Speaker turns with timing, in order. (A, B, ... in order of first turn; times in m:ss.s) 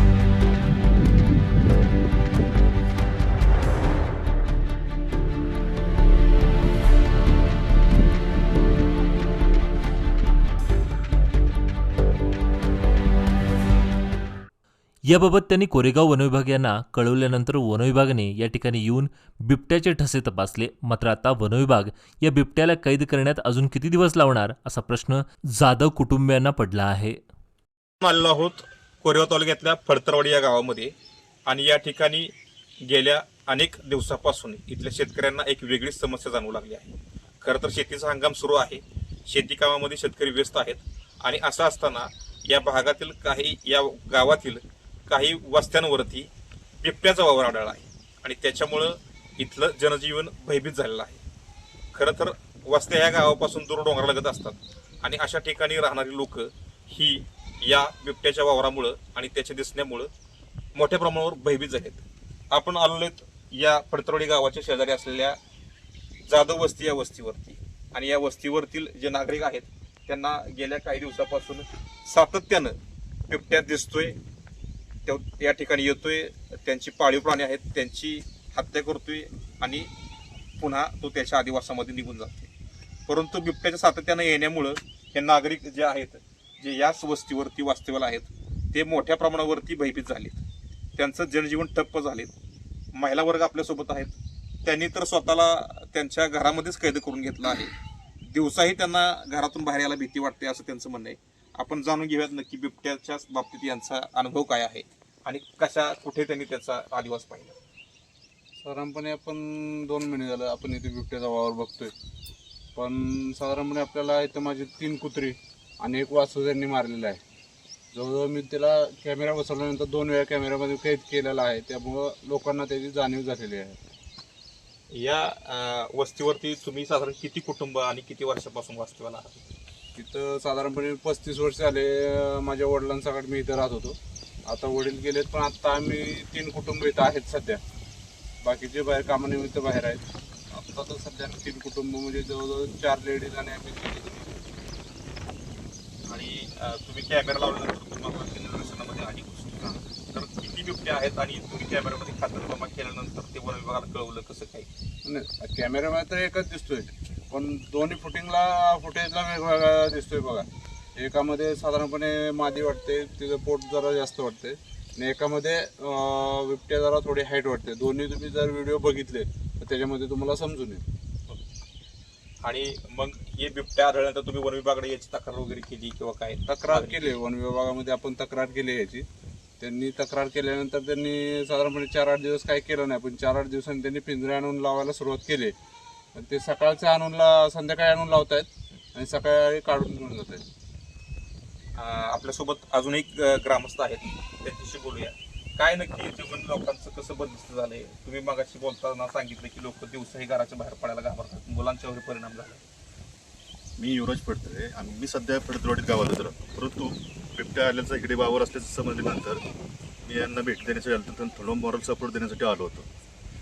0:15.1-0:27.2 A
0:28.0-0:30.9 B
0:31.5-0:32.3 B
0:32.9-0:46.3 B
0:46.8-0:51.2 B
0:51.9-1:00.1 B
1:00.8-1:05.4 B
1:06.3-1:12.8 B
1:13.3-1:14.2 B
1:15.1-1:19.9 B
1:20.6-1:22.5 B
1:23.1-1:30.4 B
1:31.0-1:32.3 B
1:33.0-1:47.6 B
1:48.6-1:51.9 C
1:52.8-1:57.2 C
1:57.9-2:03.8 C
2:04.9-2:09.4 B
2:10.0-2:17.6 C
2:18.4-2:24.4 C
2:26.1-2:34.7 B
2:35.0-2:50.8 C
2:52.4-2:57.1 B
2:56.5-2:59.1 C
2:59.6-3:05.5 C
3:06.1-3:10.4 C
3:11.8-3:22.6 B
3:23.8-3:29.4 D
3:30.1-3:32.9 D